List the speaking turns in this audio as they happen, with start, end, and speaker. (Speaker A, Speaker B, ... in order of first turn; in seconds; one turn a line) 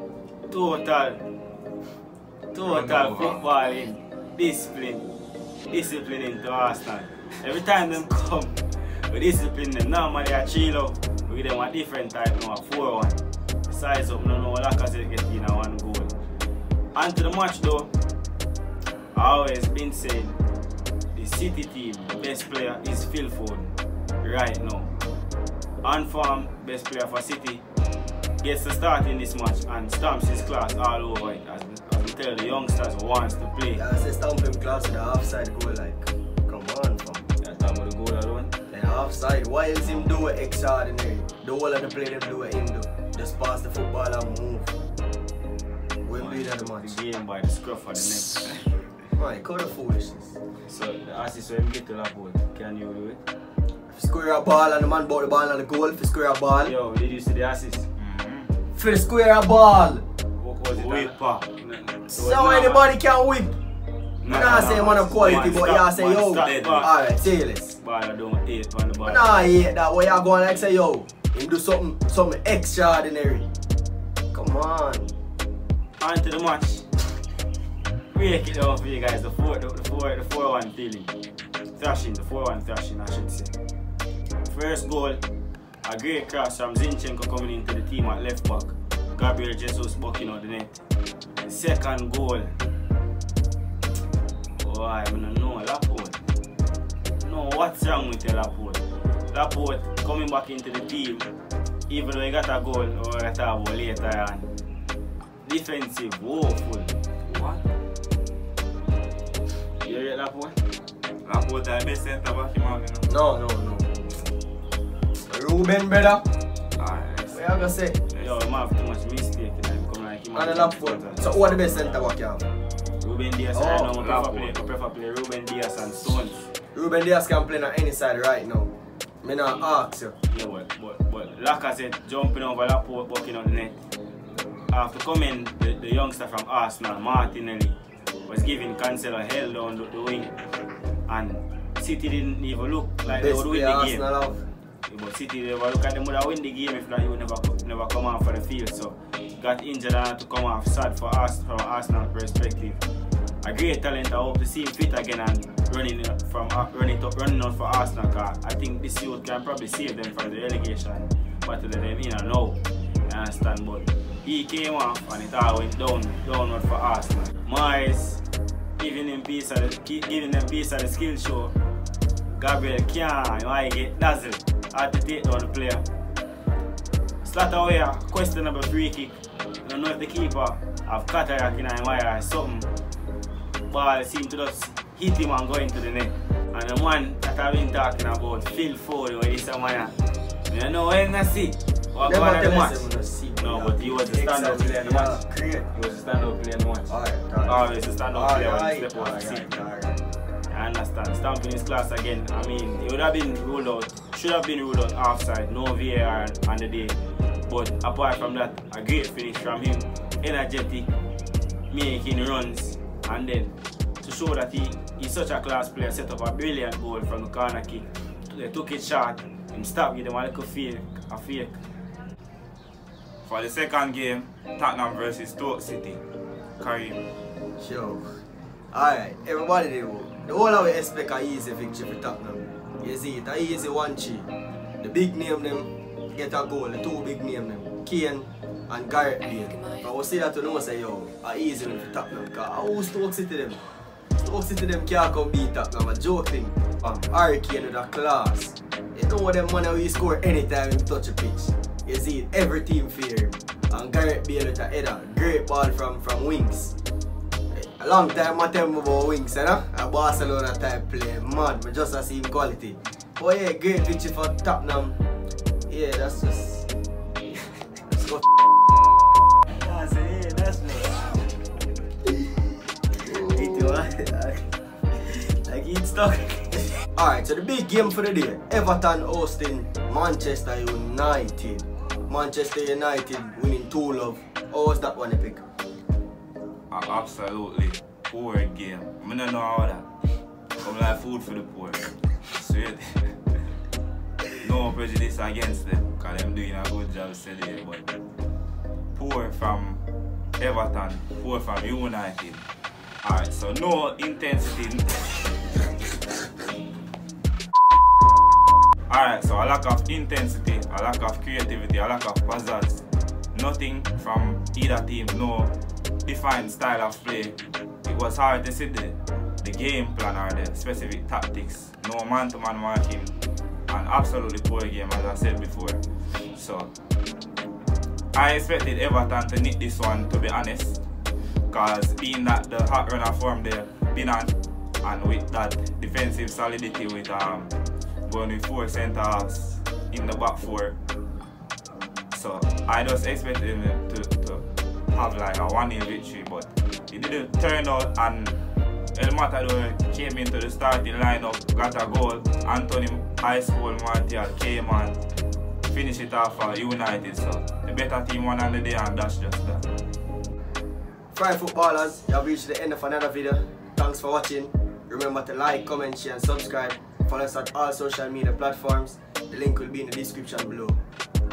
Speaker A: 0.5-1.2
Speaker A: 2.5-5.1
Speaker B: 2.7-3.2
Speaker A: 5.7-16.1
Speaker A: 16.9-17.9
Speaker A: 19.1-20.4
Speaker A: 21.1-24.9
Speaker A: 25.8-27.6
Speaker A: 28.4-33.8
Speaker C: 33.8-37.3
Speaker A: 37.4-38.5
Speaker C: 38.7-44.7
Speaker C: 46.0-47.0
Speaker A: 46.1-48.6
Speaker C: 49.1-50.4
Speaker A: 50.6-53.2
Speaker C: 53.9-56.7
Speaker A: 56.6-57.9
Speaker B: 58.0-58.5
Speaker C: 58.7-60.0
Speaker A: 60.4-62.9
Speaker B: 60.7-61.1
Speaker C: 62.1-63.5
Speaker A: 64.2-66.9
Speaker C: 64.2-67.7
Speaker B: 66.4-66.9
Speaker A: 67.8-69.4
Speaker C: 69.0-73.5
Speaker C: 74.3-75.1
Speaker A: 76.0-76.8
Speaker A: 78.1-81.1
Speaker A: 81.8-83.5
Speaker A: 84.5-85.2
Speaker A: 85.8-90.8
Speaker A: 91.4-92.6
Speaker A: 94.6-96.2
Speaker A: 97.2-101.3
Speaker A: 101.9-104.5
Speaker A: 105.4-106.9
Speaker B: 107.2-107.6
Speaker A: 109.8-110.6
Speaker B: 111.2-113.1
Speaker C: 113.1-114.3
Speaker C: 115.2-116.2
Speaker B: 116.8-117.4
Speaker C: 117.3-118.0
Speaker A: 118.2-122.1
Speaker C: 120.3-122.4
Speaker A: 123.0-126.5
Speaker C: 123.5-124.0
Speaker B: 124.0-124.6
Speaker C: 126.7-130.2
Speaker A: 130.3-133.8
Speaker A: 134.7-137.8
Speaker A: 138.3-140.3
Speaker A: 141.1-144.0
Speaker C: 143.1-144.4
Speaker A: 144.8-152.8
Speaker A: 153.4-168.2
Speaker A: 168.8-171.5
Speaker A: 172.3-175.8
Speaker A: 177.2-182.7
Speaker A: 183.7-189.9
Speaker A: 190.5-192.9
Speaker C: 192.0-195.7
Speaker A: 193.4-196.9
Speaker C: 196.9-200.1
Speaker A: 197.4-199.5
Speaker A: 200.5-210.9
Speaker A: 211.7-221.6
Speaker B: 223.2-226.0
Speaker B: 226.6-227.0
Speaker C: 227.6-228.2
Speaker C: 228.7-234.3
Speaker C: 234.8-243.6
Speaker C: 244.2-256.7
Speaker C: 257.5-264.9
Speaker C: 265.7-266.7
Speaker C: 267.9-268.2
Speaker A: 269.5-271.2
Speaker A: 272.9-276.7
Speaker C: 276.9-285.4
Speaker B: 286.7-289.9
Speaker B: 290.6-293.2
Speaker B: 294.4-297.9
Speaker B: 298.9-299.8
Speaker B: 300.4-302.4
Speaker B: 303.0-305.2
Speaker B: 308.9-315.5
Speaker B: 316.1-323.1
Speaker B: 323.7-326.7
Speaker B: 328.1-330.8
Speaker B: 331.5-337.5
Speaker B: 338.1-340.7
Speaker B: 342.1-348.4
Speaker B: 348.9-355.0
Speaker B: 355.7-359.6
Speaker C: 361.1-370.8